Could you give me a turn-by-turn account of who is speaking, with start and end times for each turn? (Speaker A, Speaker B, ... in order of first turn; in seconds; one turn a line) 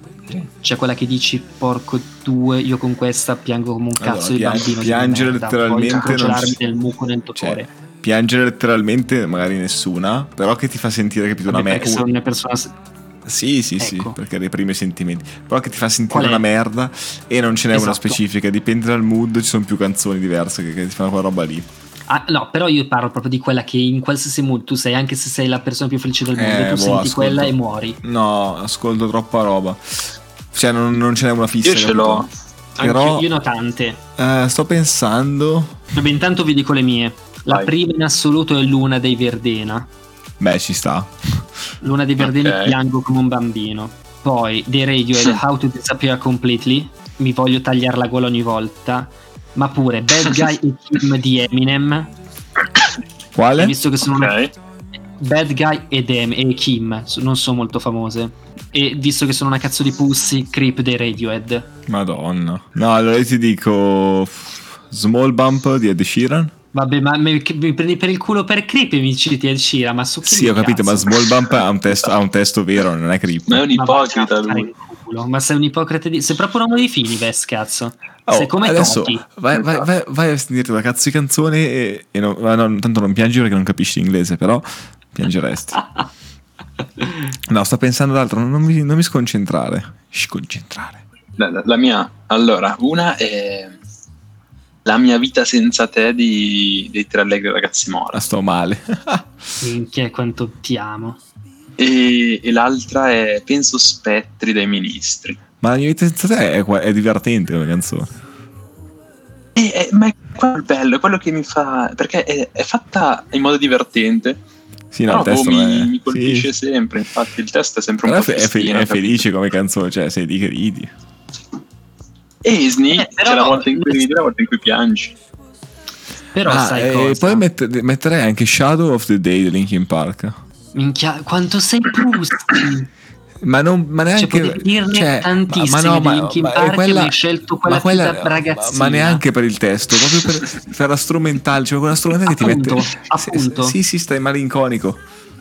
Speaker A: 0.3-7.7
Speaker B: 4.0-6.6
Speaker B: 7.3-12.1
Speaker A: 11.5-12.7
Speaker B: 13.2-21.7
Speaker A: 13.8-14.2
Speaker A: 16.1-16.4
Speaker A: 17.7-18.2
Speaker A: 22.1-28.0
Speaker B: 26.3-32.3
Speaker C: 31.6-32.3
Speaker B: 32.8-33.2
Speaker A: 32.8-34.0
Speaker B: 34.2-35.8
Speaker A: 35.9-39.9
Speaker B: 40.4-41.5
Speaker A: 41.8-52.1
Speaker C: 42.2-42.8
Speaker B: 53.3-53.8
Speaker A: 53.6-54.4
Speaker C: 54.0-54.5
Speaker A: 55.2-61.7
Speaker B: 61.9-66.5
Speaker A: 66.7-71.1
Speaker B: 70.2-73.7
Speaker C: 73.5-74.7
Speaker A: 73.7-79.2
Speaker B: 78.2-85.8
Speaker C: 79.5-79.8
Speaker B: 87.4-91.0
Speaker C: 91.4-93.8
Speaker C: 94.8-98.2
Speaker B: 98.1-99.3
Speaker A: 99.6-101.2
Speaker C: 101.8-105.4
Speaker B: 105.6-108.2
Speaker C: 109.5-114.4
Speaker B: 114.9-116.5
Speaker C: 115.1-119.2
Speaker B: 118.0-120.9
Speaker C: 122.4-125.1
Speaker A: 122.9-124.1
Speaker A: 126.3-127.4
Speaker B: 126.4-130.4
Speaker A: 130.7-132.9
Speaker B: 133.4-145.0
Speaker A: 134.2-139.2
Speaker A: 142.3-143.8